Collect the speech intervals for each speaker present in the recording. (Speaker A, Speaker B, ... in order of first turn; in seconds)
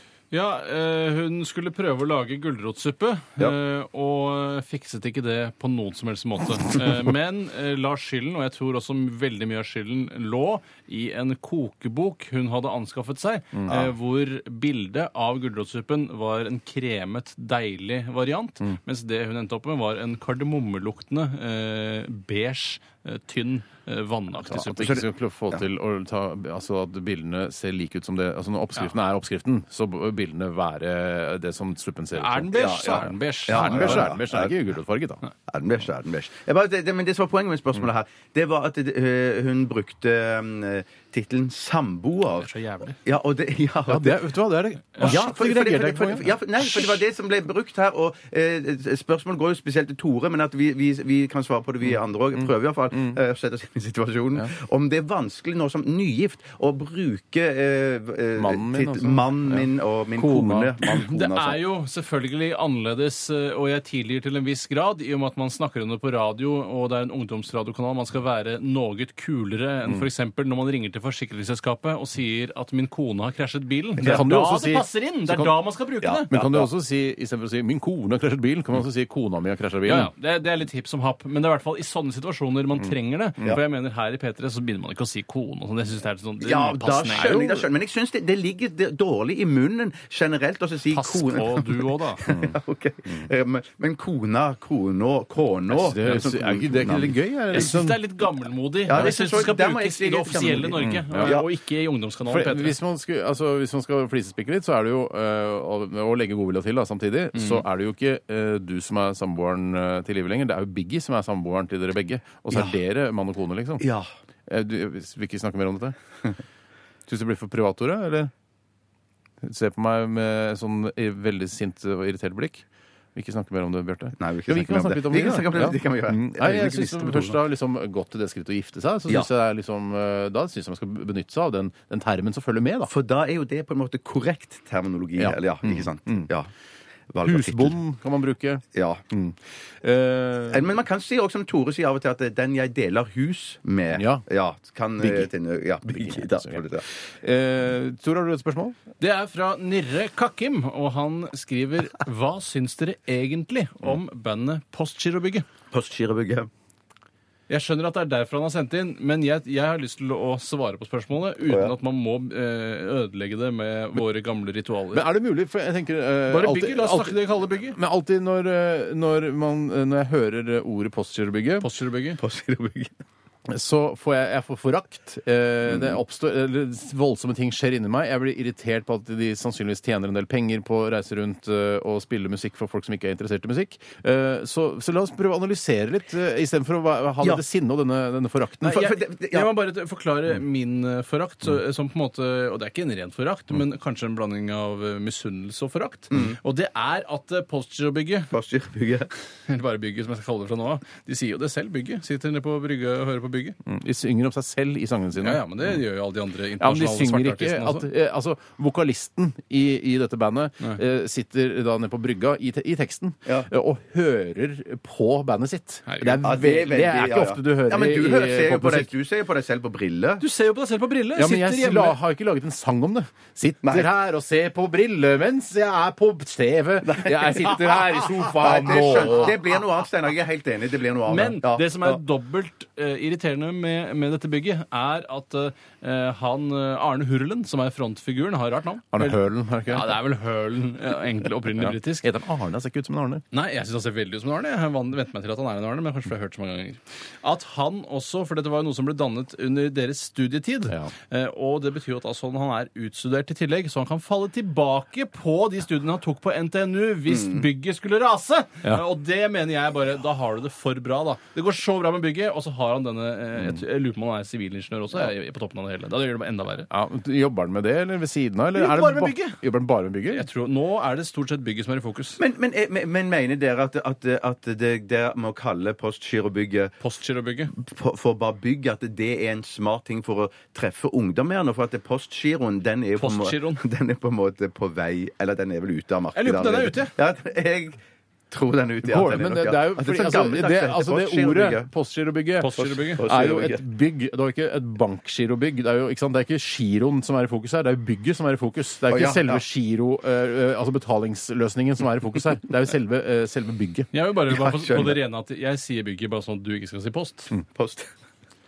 Speaker A: 0.3-25.0, 32.1-34.1, 42.4-43.0, 60.8-76.3, 79.8-87.5, 90.9-92.2, 97.5-102.8, 107.3-107.6, 149.0-155.5, 157.5-165.1, 166.3-167.8, 171.6-172.2, 188.7-198.3, 199.5-203.6, 205.2-207.9, 215.9-216.2, 220.2-222.0, 231.1-242.1, 243.3-266.7, 268.6-269.4, 270.1-272.2, 276.8-277.5, 283.0-283.6, 286.1-286.9, 292.4-293.1, 303.9-307.3
Speaker B: 13.5-13.8, 24.5-35.2, 43.9-47.0, 51.9-53.2, 58.4-60.8, 74.0-75.6, 76.3-80.1, 82.8-83.6, 87.1-87.6, 92.3-92.6, 95.7-98.0, 100.8-101.4, 102.3-113.9, 114.5-116.0, 117.1-118.3, 119.4-132.9, 135.2-136.3, 137.2-140.7, 143.9-144.2, 145.0-145.3, 145.9-146.7, 147.2-148.8, 164.9-171.7, 173.5-188.8, 203.7-205.8, 206.6-218.9, 221.2-229.4, 238.9-240.0, 241.6-243.2, 266.7-270.2, 288.8-303.9
Speaker C: 24.8-25.6, 32.5-34.5, 35.5-42.5, 43.0-44.2, 45.0-61.6, 76.0-76.7, 86.4-97.7, 98.9-101.5, 112.5-112.8, 113.8-114.1, 124.2-127.4, 132.9-136.5, 137.1-137.8, 138.8-139.0, 140.5-146.8, 155.7-156.5, 161.5-161.7, 172.2-172.9, 175.7-176.0, 188.6-189.5, 196.1-196.4, 198.3-199.1, 216.2-220.2, 226.8-232.0, 257.1-257.4, 272.2-276.7, 277.6-287.8, 288.3-291.7, 293.0-293.6, 298.9-299.4, 304.3-305.0, 307.6-307.9